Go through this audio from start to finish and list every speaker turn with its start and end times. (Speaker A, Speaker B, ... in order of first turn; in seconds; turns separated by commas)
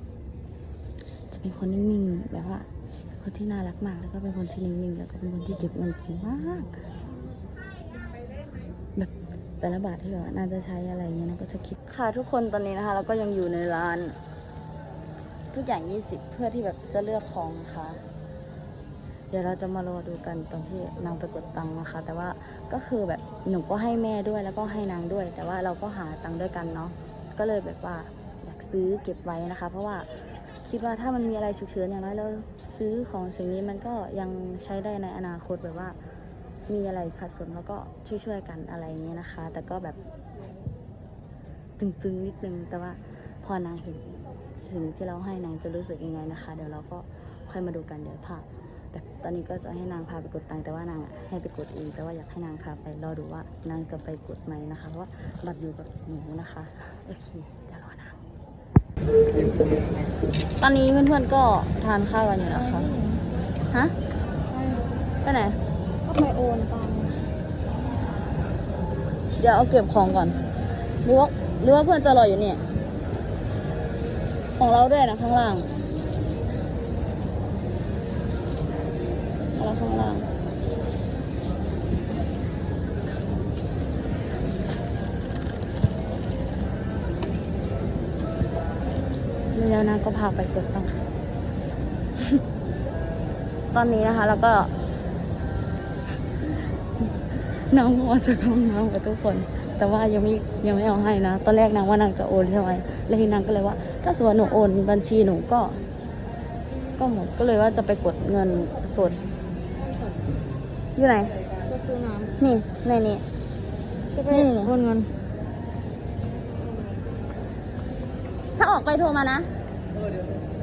Speaker A: 1.3-2.7, Speaker A: 3.2-6.8, Speaker A: 9.6-14.2, Speaker A: 15.5-18.0, Speaker A: 19.3-30.1, Speaker A: 30.6-36.0, Speaker A: 36.7-40.0, Speaker A: 41.8-58.2, Speaker A: 60.6-62.9, Speaker B: 62.5-63.3, Speaker A: 63.7-63.9, Speaker B: 64.5-65.0, Speaker A: 65.2-65.6, Speaker B: 66.0-67.2, Speaker A: 69.4-70.4, Speaker A: 71.0-72.6, Speaker A: 74.6-75.7, Speaker A: 79.6-80.3, Speaker A: 89.5-91.0, Speaker A: 93.7-94.7, Speaker A: 97.3-105.8, Speaker A: 107.0-109.2, Speaker A: 111.0-111.4, Speaker B: 111.6-112.3, Speaker A: 112.4-113.2, Speaker B: 114.1-115.1, Speaker A: 114.3-114.7, Speaker A: 118.6-119.5